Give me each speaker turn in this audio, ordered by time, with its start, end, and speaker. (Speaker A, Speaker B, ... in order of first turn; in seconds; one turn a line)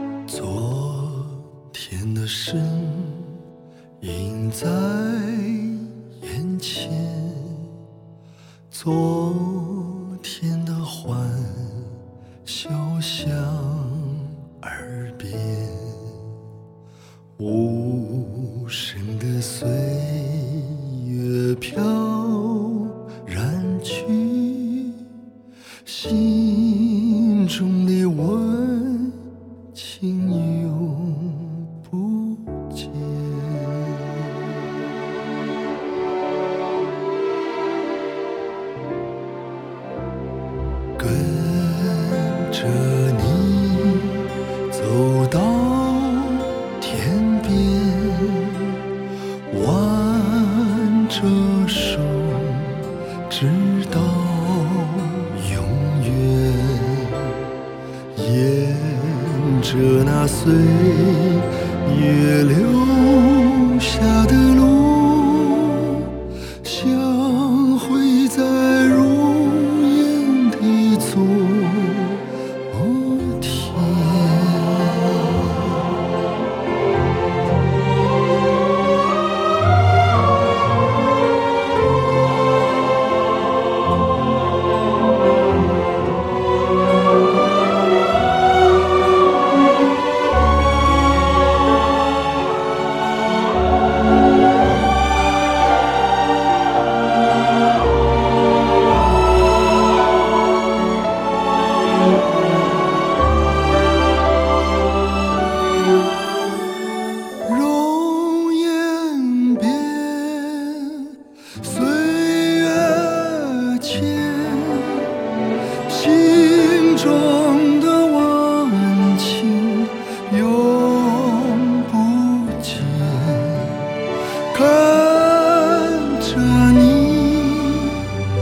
Speaker A: 0.3-3.4
Speaker A: 4.0-7.7
Speaker A: 8.7-16.3
Speaker A: 17.4-25.1
Speaker A: 25.8-29.2
Speaker A: 29.7-34.6
Speaker A: 41.0-48.8
Speaker A: 49.5-57.5
Speaker A: 58.1-75.9
Speaker A: 107.4-115.1
Speaker A: 115.8-124.0
Speaker A: 124.5-128.1